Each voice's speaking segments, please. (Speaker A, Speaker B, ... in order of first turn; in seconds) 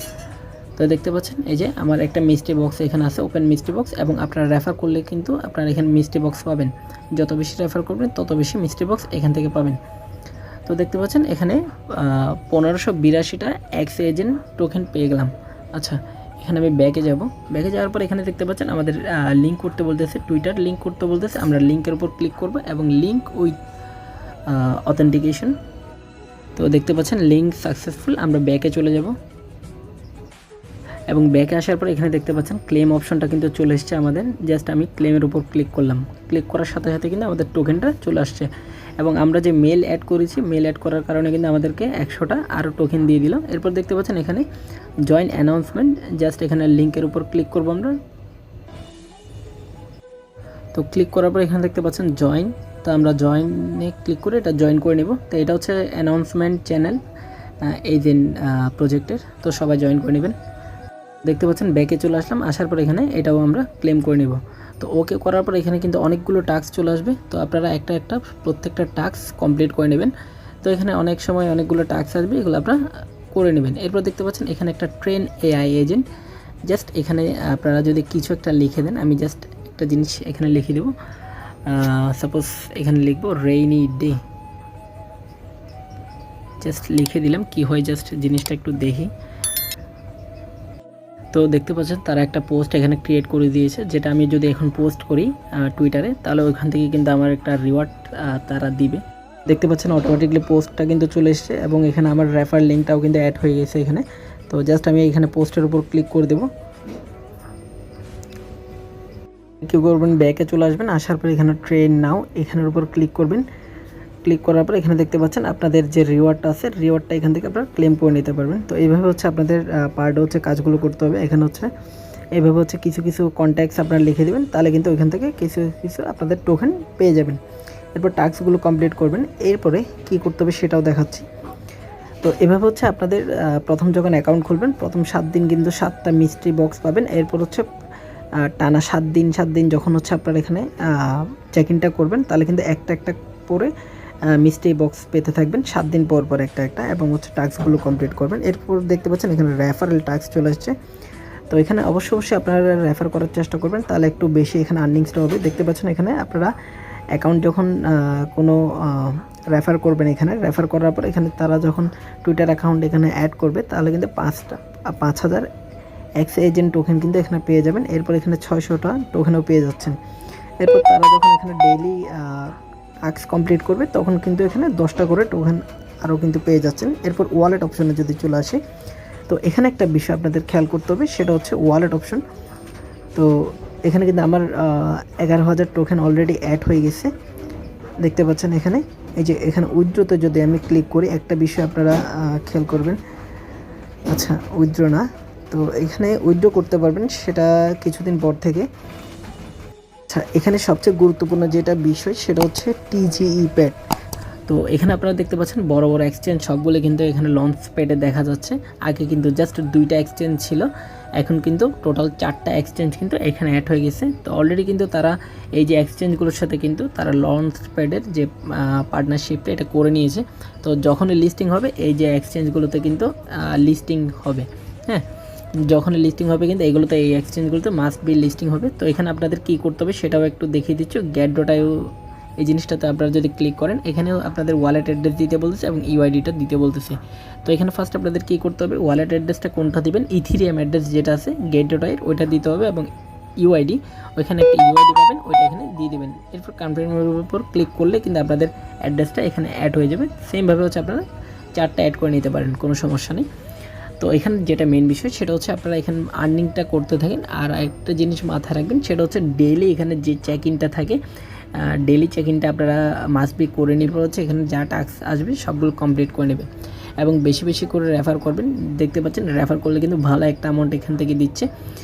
Speaker A: 0.8-9.8, 10.7-23.6, 24.5-25.6, 26.6-29.1, 31.1-44.5, 45.1-48.0, 50.7-57.0, 57.6-60.4, 61.2-72.8, 73.3-76.0, 76.7-80.9, 81.7-84.2, 86.6-89.1, 91.3-106.5, 109.6-113.5, 114.2-121.7, 122.3-127.4, 128.0-131.3, 132.2-137.7, 138.4-143.7, 144.3-150.7, 151.5-156.5, 157.1-165.5, 166.2-170.0, 170.6-178.6, 179.3-182.2, 183.2-187.1, 188.0-193.0, 194.1-198.7, 200.1-203.8, 204.5-225.1, 225.7-253.3, 254.0-261.0, 261.6-266.5, 267.0-271.5